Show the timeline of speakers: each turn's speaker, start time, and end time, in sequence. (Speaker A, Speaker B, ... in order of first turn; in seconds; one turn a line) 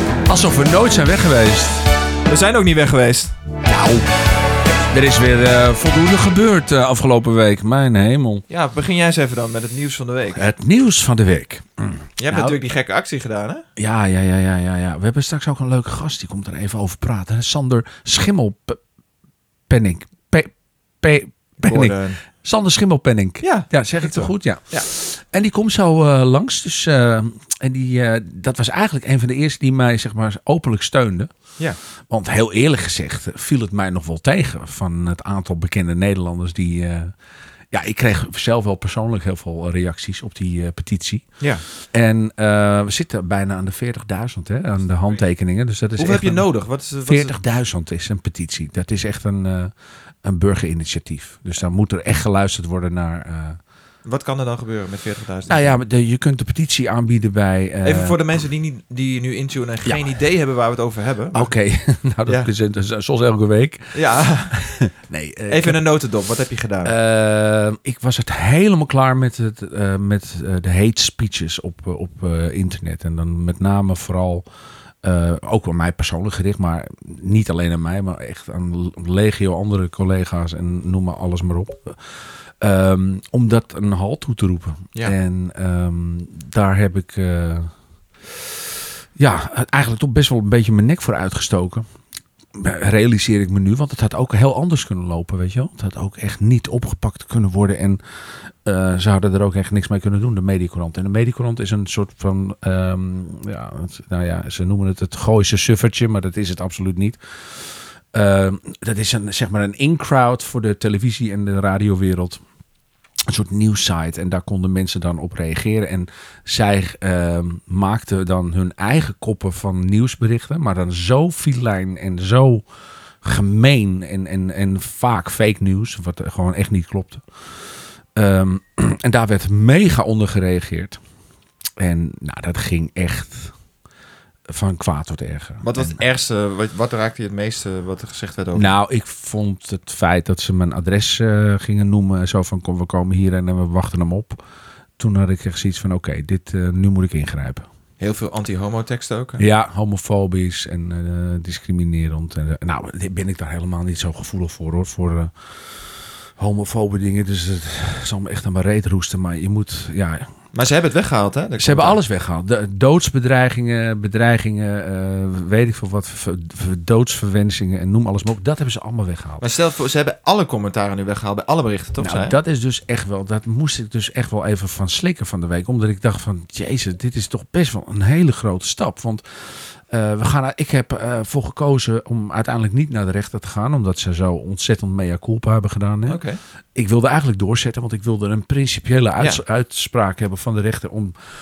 Speaker A: 0.2-1.8
Speaker B: 2.3-3.3
Speaker A: 3.6-4.1
Speaker A: 4.9-8.4
Speaker B: 8.5-10.5
Speaker A: 10.3-12.6
Speaker B: 12.2-13.6
Speaker A: 13.8-18.8
Speaker A: 19.7-31.3
Speaker B: 21.6-22.2
Speaker B: 23.4-24.9
Speaker A: 32.1-37.1
Speaker A: 37.7-46.5
Speaker B: 46.0-47.3
Speaker A: 47.0-49.7
Speaker A: 50.2-53.6
Speaker B: 54.0-55.7
Speaker A: 55.5-58.2
Speaker B: 57.8-61.5
Speaker A: 61.3-64.0
Speaker B: 63.9-64.6
Speaker A: 64.5-65.8
Speaker B: 65.5-66.9
Speaker A: 66.8-74.5
Speaker A: 75.0-87.7
Speaker A: 88.2-91.9
Speaker A: 92.5-112.4
Speaker A: 113.3-122.7
Speaker A: 123.2-127.2
Speaker A: 128.1-131.0
Speaker A: 131.8-133.5
Speaker A: 134.5-136.0
Speaker B: 135.6-138.7
Speaker A: 138.5-144.4
Speaker A: 145.0-147.7
Speaker B: 148.0-149.4
Speaker A: 149.4-160.3
Speaker B: 160.5-162.0
Speaker A: 161.6-169.4
Speaker B: 169.4-172.3
Speaker A: 172.0-186.2
Speaker B: 186.1-186.4
Speaker A: 186.7-191.2